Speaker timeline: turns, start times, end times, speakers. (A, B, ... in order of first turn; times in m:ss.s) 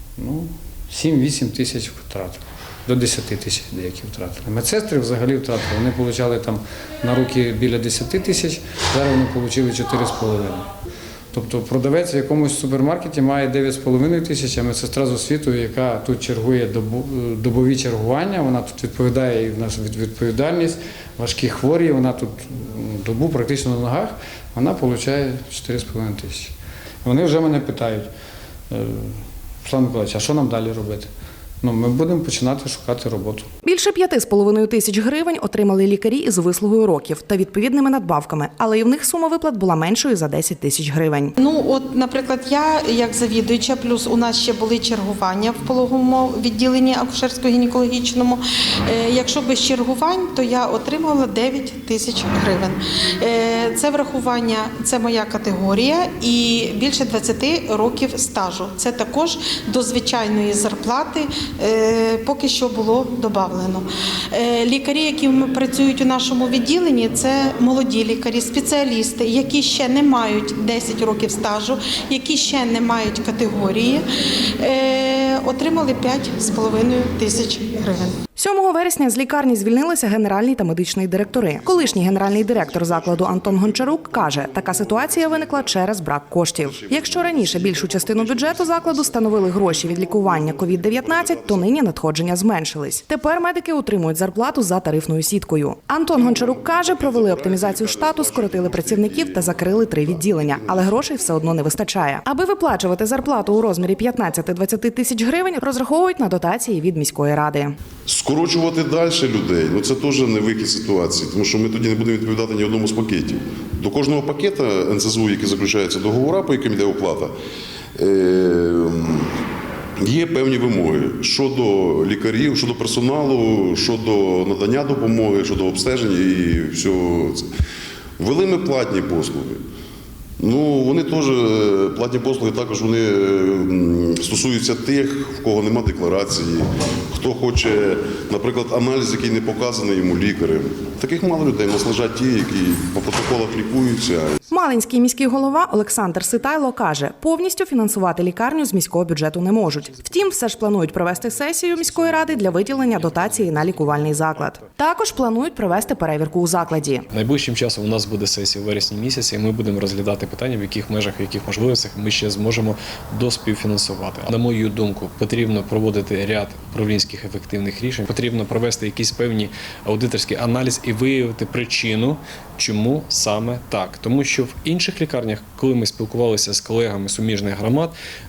0:00.2-0:10.7 A
0:11.3-0:28.1 A
0:28.7-0:31.1 A
0:31.6-0:33.5 A
0:33.6-0:41.4 B
0:41.4-1:14.0 C
1:14.6-1:18.2 C
1:18.4-1:47.7 B
1:21.4-1:25.9 D
1:26.6-1:31.7 D
1:36.1-1:41.0 D
1:48.1-1:57.3 D
1:58.0-1:59.3 D
2:00.0-2:07.5 D
2:08.2-2:09.6 D
2:10.4-2:24.4 D
2:24.5-2:37.0 B
2:37.1-2:58.0 E